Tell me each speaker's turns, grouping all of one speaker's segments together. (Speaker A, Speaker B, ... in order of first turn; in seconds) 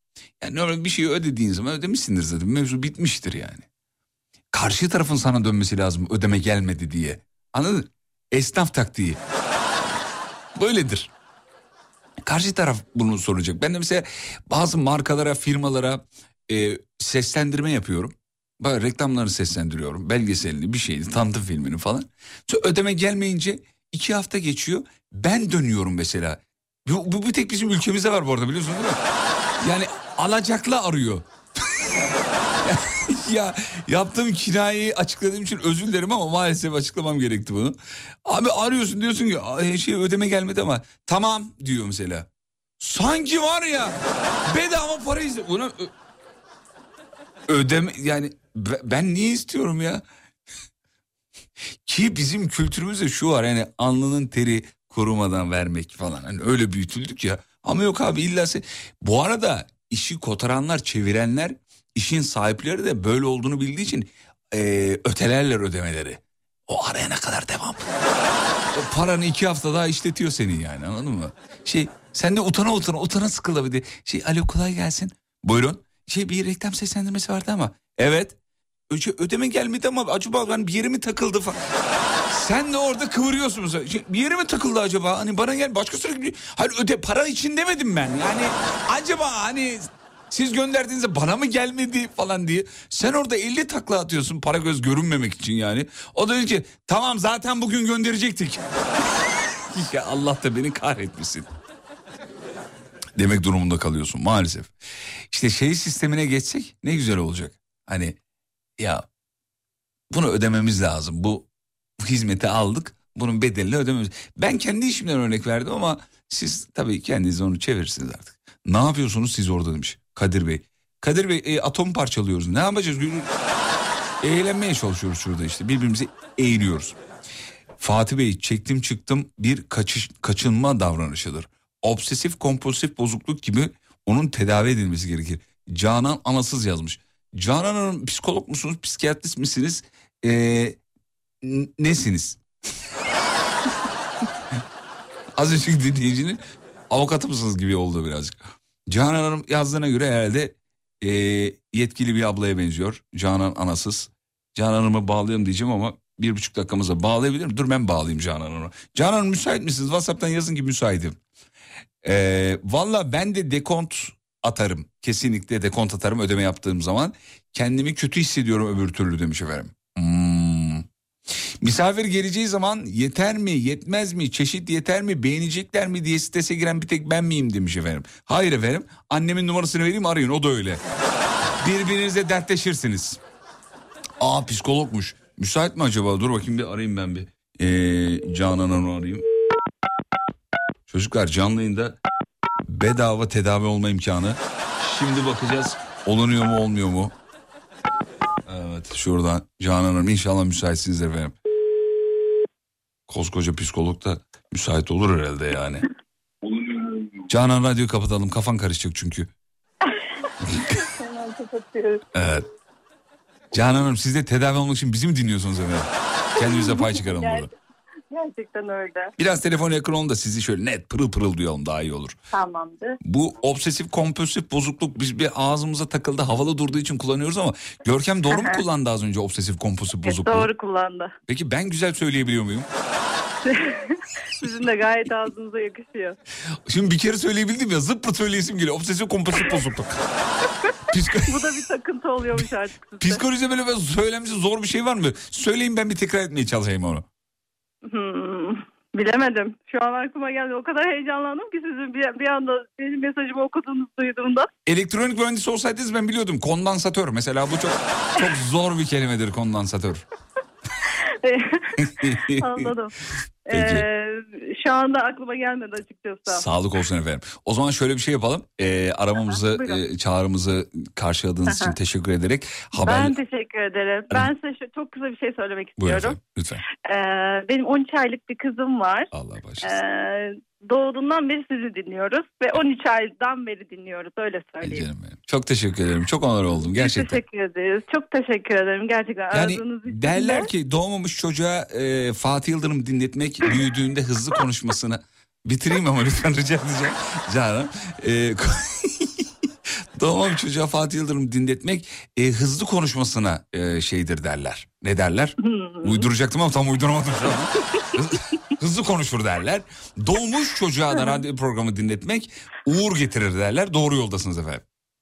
Speaker A: 0.4-3.6, 4.5-9.2, 10.6-11.1, 12.2-29.0, 29.6-31.2, 32.6-42.3, 42.8-45.9, 47.5-50.0, 51.9-67.8, 68.7-78.4, 78.9-81.6, 82.3-98.6, 99.7-101.5, 103.2-104.7, 105.3-108.2, 108.8-109.0, 110.1-111.5, 112.0-123.3, 124.2-127.0, 127.8-140.8, 141.4-142.4, 145.4-161.2, 162.0-170.8, 171.6-180.8, 181.6-183.2, 184.2-189.2, 190.9-192.0, 192.7-197.1, 198.5-201.3, 203.1-205.8, 207.3-209.3, 210.5-210.8, 212.1-212.5, 213.5-217.5, 219.2-222.2, 223.0-230.5, 231.3-232.7, 236.7-240.0, 240.9-241.4, 243.0-247.1, 254.7-260.0, 261.8-262.7, 263.5-263.9, 266.3-273.1, 275.8-276.6, 279.1-279.7, 284.6-287.2, 289.3-299.2, 300.0-314.6
Speaker B: 216.6-217.3, 218.1-219.1, 222.3-223.0, 228.3-228.6, 230.1-231.1, 233.5-236.2, 241.2-243.2, 247.8-254.5, 261.2-261.7, 262.2-262.9, 263.5-266.4, 269.3-269.8, 272.8-276.2, 276.8-279.1, 279.6-284.9, 286.6-290.5, 305.4-305.9